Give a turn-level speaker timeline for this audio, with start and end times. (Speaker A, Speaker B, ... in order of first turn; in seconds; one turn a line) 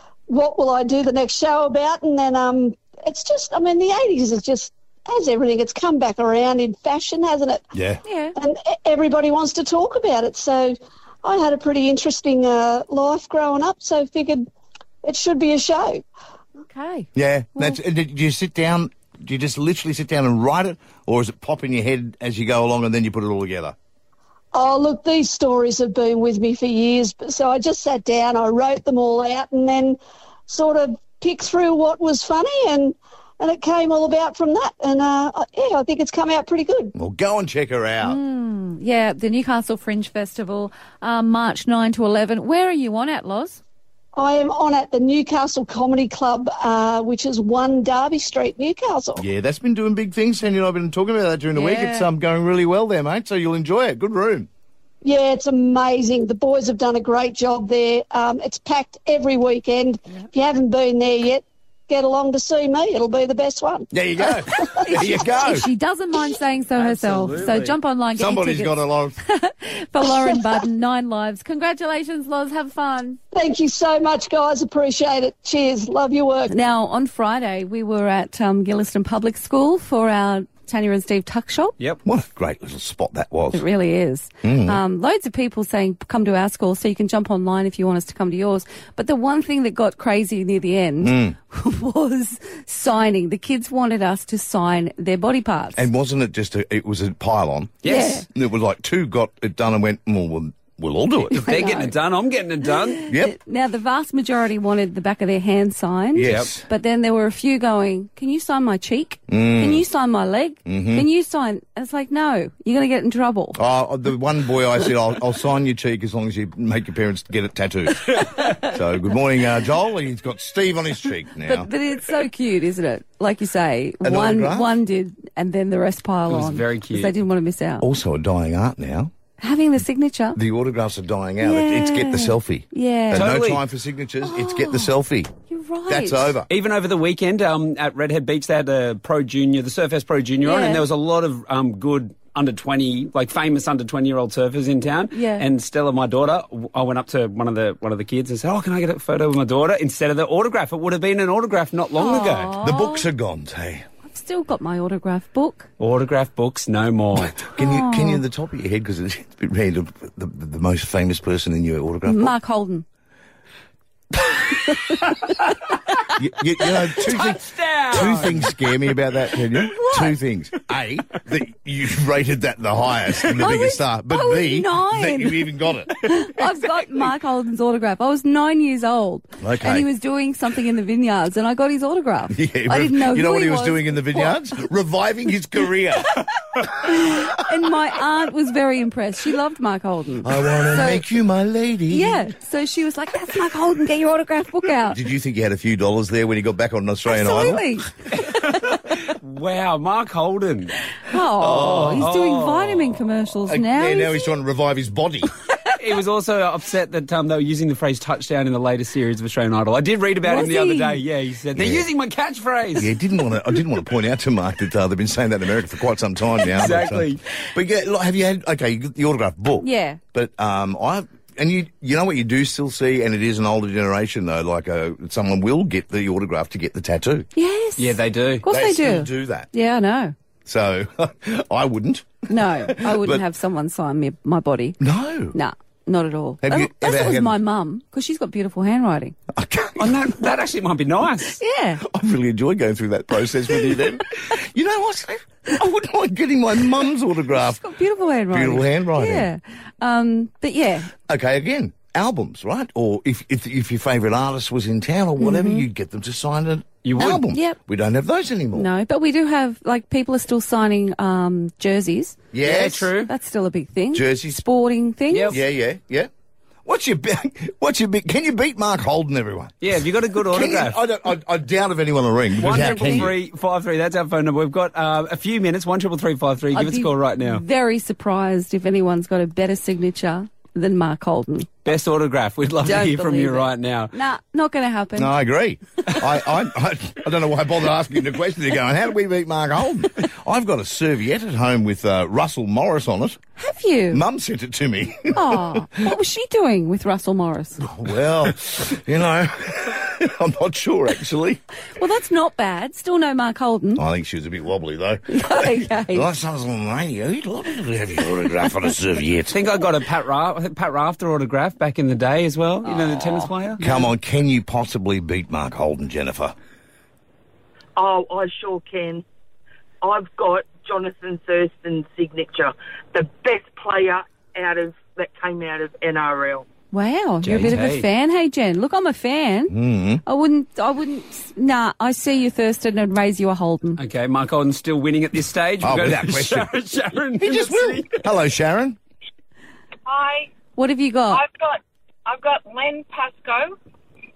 Speaker A: 0.3-7.7
Speaker B: 7.7-8.0
Speaker C: 8.0-8.3
Speaker A: 8.4-14.4
Speaker A: 15.0-16.0
Speaker C: 16.6-17.8
Speaker B: 17.1-23.7
Speaker A: 24.5-36.9
Speaker B: 37.0-38.2
Speaker C: 38.0-43.6
Speaker A: 44.1-49.2
Speaker B: 49.2-54.5
Speaker C: 51.5-52.1
Speaker A: 55.0-63.9
Speaker B: 63.9-65.7
Speaker C: 64.7-73.2
Speaker D: 66.8-67.8
Speaker B: 68.1-69.2
Speaker A: 70.0-70.4
Speaker A: 73.3-76.5
Speaker C: 76.5-81.8
Speaker B: 82.0-83.6
Speaker C: 83.5-95.8
Speaker B: 84.4-84.8
Speaker B: 91.0-91.3
Speaker B: 95.8-101.6
Speaker D: 97.8-98.2
Speaker C: 97.8-98.2
Speaker D: 101.3-103.1
Speaker C: 101.3-101.9
Speaker B: 103.1-103.3
Speaker C: 103.1-113.6
Speaker B: 106.1-106.6
Speaker D: 106.2-106.5
Speaker B: 109.3-109.8
Speaker B: 110.7-111.1
Speaker B: 113.5-121.7
Speaker C: 121.4-127.8
Speaker B: 124.0-124.8
Speaker D: 126.3-127.1
Speaker B: 127.8-129.1
Speaker C: 129.4-130.4
Speaker B: 130.3-135.3
Speaker C: 131.4-133.3
Speaker D: 133.1-133.6
Speaker C: 134.2-134.9
Speaker C: 135.5-136.4
Speaker B: 135.9-136.5
Speaker D: 136.5-152.6
Speaker C: 140.4-140.8
Speaker C: 145.1-145.4
Speaker C: 152.0-153.1
Speaker B: 152.6-153.8
Speaker C: 154.0-155.7
Speaker D: 155.8-157.4
Speaker B: 157.2-162.3
Speaker C: 157.6-158.2
Speaker C: 162.0-162.8
Speaker C: 164.5-165.2
Speaker B: 166.2-175.9
Speaker D: 167.0-168.5
Speaker C: 169.6-170.2
Speaker C: 173.3-184.4
Speaker B: 179.4-179.9
Speaker B: 182.3-186.2
Speaker C: 186.7-191.0
Speaker B: 187.0-187.2
Speaker B: 190.2-192.3
Speaker C: 191.9-195.0
Speaker B: 194.9-197.6
Speaker C: 197.1-198.8
Speaker D: 198.2-200.8
Speaker C: 201.0-204.3
Speaker B: 201.4-202.1
Speaker D: 201.4-203.0
Speaker B: 203.5-205.3
Speaker D: 205.8-212.9
Speaker C: 210.2-211.0
Speaker B: 211.5-211.9
Speaker B: 212.8-227.3
Speaker D: 216.5-217.2
Speaker C: 219.6-220.0
Speaker C: 227.3-230.1
Speaker D: 227.8-228.4
Speaker B: 228.4-229.5
Speaker B: 230.4-233.2
Speaker C: 232.3-234.8
Speaker B: 234.8-235.3
Speaker C: 235.3-239.1
Speaker B: 236.4-237.4
Speaker B: 239.3-240.1
Speaker D: 239.8-241.4
Speaker C: 241.4-241.8
Speaker B: 241.8-247.6
Speaker C: 247.3-250.9
Speaker B: 248.3-249.3
Speaker B: 251.0-258.7
Speaker C: 255.2-255.7
Speaker D: 256.8-257.2
Speaker C: 257.3-257.6
Speaker C: 258.5-262.2
Speaker B: 262.3-262.9
Speaker D: 262.4-263.1
Speaker C: 263.1-265.4
Speaker B: 263.9-264.4
Speaker D: 265.1-265.4
Speaker B: 265.3-266.1
Speaker B: 266.6-273.1
Speaker D: 269.6-270.8
Speaker D: 272.4-277.4
Speaker C: 272.4-273.1
Speaker C: 276.5-281.5
Speaker D: 281.6-283.9
Speaker C: 282.6-285.1
Speaker B: 285.0-293.2
Speaker C: 293.4-294.0
Speaker B: 293.9-295.8
Speaker C: 295.1-297.6
Speaker B: 297.6-301.4
Speaker C: 301.8-303.8
Speaker B: 303.8-309.4
Speaker C: 305.1-306.1
Speaker D: 309.3-313.6
Speaker C: 312.9-313.8
Speaker B: 313.6-316.3
Speaker E: 317.8-319.0
Speaker E: 319.8-326.4
Speaker C: 326.7-333.8
Speaker D: 327.2-327.9
Speaker B: 329.5-330.0
Speaker D: 333.8-338.0
Speaker B: 335.6-336.5
Speaker B: 337.2-338.8
Speaker E: 339.9-340.2
Speaker C: 340.6-341.2
Speaker E: 341.1-341.4
Speaker E: 342.1-343.4